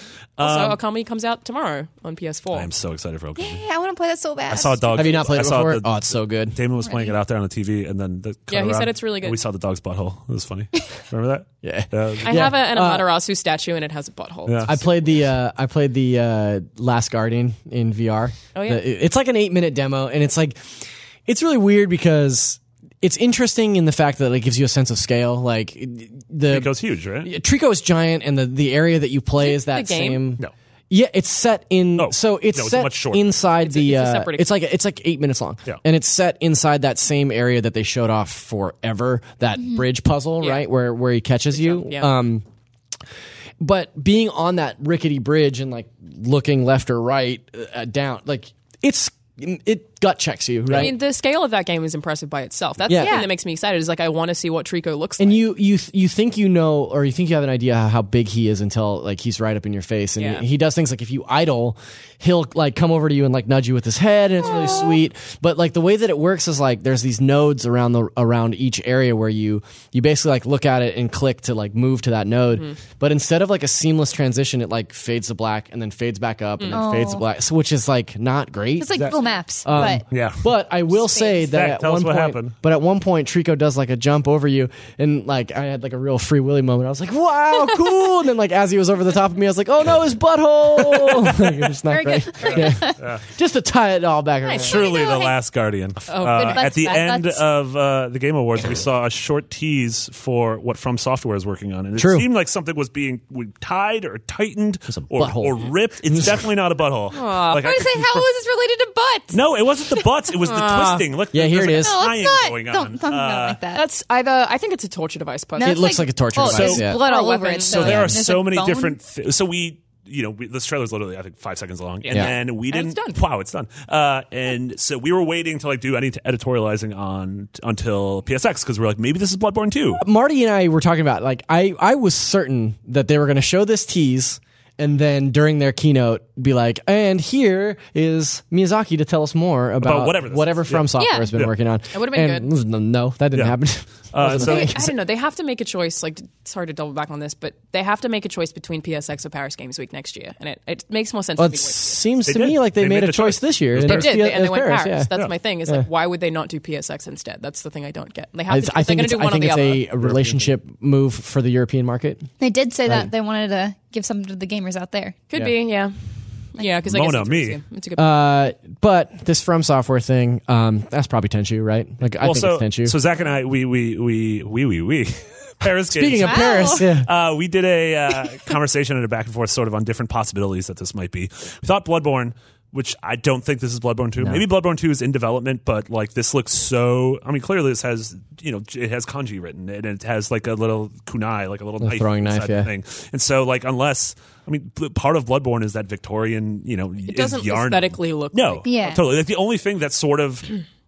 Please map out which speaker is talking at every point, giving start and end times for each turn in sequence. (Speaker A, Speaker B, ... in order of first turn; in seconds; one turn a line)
Speaker A: 0.4-0.8
Speaker B: 0.4-2.7
Speaker A: 2.5-3.6
Speaker C: 3.4-5.3
Speaker A: 4.5-12.6
Speaker D: 4.9-6.6
Speaker C: 6.8-7.2
Speaker B: 8.5-9.4
Speaker D: 11.6-13.1
Speaker B: 12.2-14.9
Speaker A: 14.5-14.7
Speaker D: 14.7-42.5
Speaker B: 18.5-18.8
Speaker A: 26.5-27.3
Speaker B: 29.4-30.2
Speaker A: 32.0-33.4
Speaker B: 33.6-34.5
Speaker C: 39.6-39.9
Speaker B: 40.4-40.7
Speaker B: 41.5-42.1
Speaker D: 43.6-50.9
Speaker A: 50.7-50.9
Speaker B: 50.7-55.4
Speaker D: 52.9-53.2
Speaker C: 52.9-53.3
Speaker D: 55.2-94.8
Speaker B: 60.2-60.5
Speaker C: 76.7-77.2
Speaker C: 78.8-80.0
Speaker A: 79.7-80.5
Speaker C: 81.0-81.5
Speaker A: 81.5-82.6
Speaker A: 90.9-91.6
Speaker C: 91.9-93.0
Speaker A: 92.4-93.2
Speaker C: 94.5-95.4
Speaker A: 94.6-108.3
Speaker B: 96.1-96.9
Speaker C: 96.2-97.4
Speaker D: 102.0-102.3
Speaker D: 104.9-106.4
Speaker B: 107.1-107.7
Speaker C: 107.6-110.0
Speaker A: 109.3-113.6
Speaker B: 110.4-111.1
Speaker D: 111.3-112.1
Speaker C: 111.7-113.8
Speaker B: 113.7-116.0
Speaker C: 115.6-119.0
Speaker D: 115.6-117.0
Speaker A: 116.4-116.9
Speaker B: 116.6-117.9
Speaker A: 117.7-130.0
Speaker D: 117.8-118.2
Speaker B: 122.0-123.2
Speaker D: 129.9-144.9
Speaker A: 139.8-141.5
Speaker C: 141.0-141.3
Speaker B: 141.9-142.5
Speaker A: 144.1-144.9
Speaker B: 144.2-152.0
Speaker D: 151.4-155.1
Speaker A: 152.3-154.2
Speaker B: 153.8-159.9
Speaker D: 158.5-162.3
Speaker A: 160.0-160.5
Speaker C: 162.4-165.2
Speaker B: 165.3-168.2
Speaker A: 166.9-167.6
Speaker D: 168.0-173.0
Speaker A: 172.2-200.6
Speaker D: 175.9-177.1
Speaker C: 176.3-176.9
Speaker D: 184.2-184.4
Speaker D: 191.8-192.7
Speaker B: 197.1-198.8
Speaker C: 198.7-199.0